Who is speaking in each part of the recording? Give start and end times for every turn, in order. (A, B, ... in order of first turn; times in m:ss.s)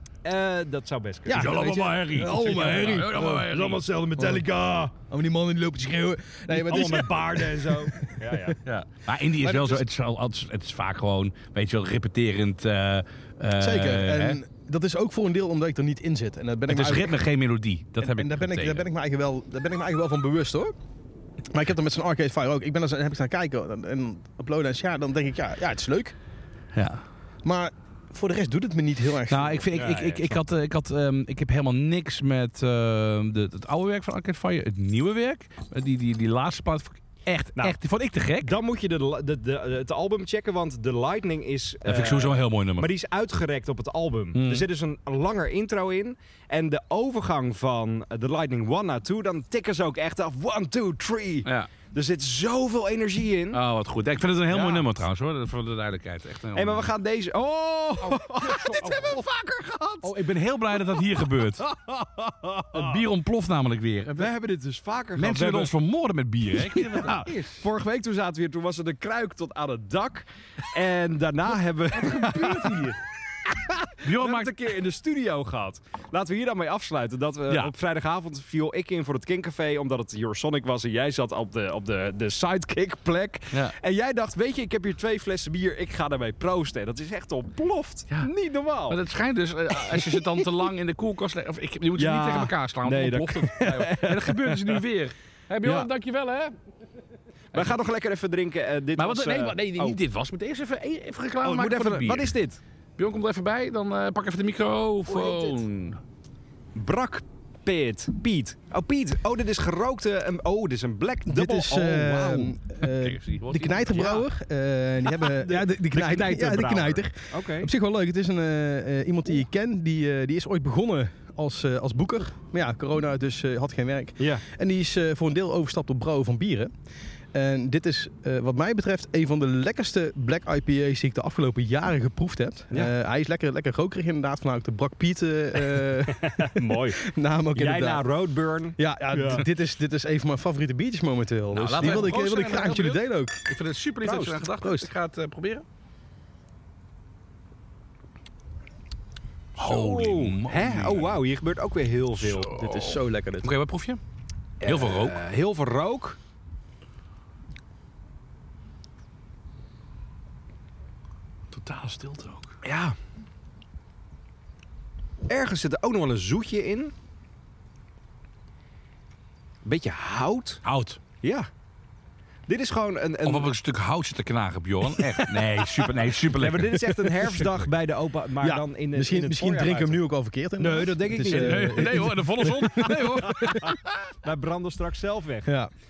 0:00.2-0:01.6 A
0:01.3-0:03.5 B
0:01.3-0:03.8 C
0:03.4-0:04.9 A
0:05.0-0:08.6 B
0:06.5-0:08.6 A
0:08.6-0:14.4 C
0:09.4-0:09.8 A
0:13.6-0:17.2 B
0:16.7-0:18.9 C
0:18.0-0:20.7 B
0:21.5-0:26.2 B
0:26.7-0:27.0 C
0:27.4-0:29.7 B
0:29.3-0:38.6 C
0:29.7-0:30.4 A
0:38.4-0:53.6 A
0:41.8-0:42.9 C
0:44.4-0:44.7 C
0:53.5-0:56.9 C
0:54.5-0:54.9 A
0:56.6-1:00.2 A
0:58.1-0:59.2 C
1:00.0-1:01.6 C
1:00.7-1:02.9 A
1:02.7-1:04.3 C
1:04.2-1:05.7 A
1:05.2-1:07.6 C
1:06.6-1:12.9 A
1:11.9-1:13.0 C
1:13.5-1:29.0 A
1:14.0-1:14.5 C
1:28.9-1:36.5 C
1:29.8-1:30.5 A
1:32.0-1:34.8 A
1:35.6-1:35.9 A
1:37.5-1:40.0 A
1:39.0-1:42.3 C
1:41.4-1:42.6 A
1:43.0-1:46.0 C
1:45.1-1:45.6 A
1:46.8-1:52.5 A
1:51.3-2:06.7 B
1:52.8-1:54.3 C
1:55.1-1:57.7 A
2:04.2-2:04.4 A
2:07.3-2:18.1 B
2:16.0-2:19.4 A
2:18.8-2:23.4 B
2:21.5-2:25.6 C
2:24.0-2:24.4 A
2:24.6-2:24.9 B
2:29.6-2:32.5 A
2:29.6-2:31.2 C
2:32.2-2:34.0 C
2:32.5-2:33.5 B
2:34.6-2:36.2 A
2:34.6-2:35.2 C
2:41.5-2:42.5 C
2:42.6-2:43.0 A
2:45.3-2:46.9 A
2:49.6-2:50.6 A
2:50.6-2:51.0 C
2:51.2-2:51.5 A
2:52.5-2:53.5 A
2:53.2-2:57.5 C
2:55.0-3:00.0 A
2:58.4-3:03.8 B
3:00.6-3:02.1 A
3:01.2-3:04.1 C
3:03.3-3:05.5 A
3:05.4-3:05.7 B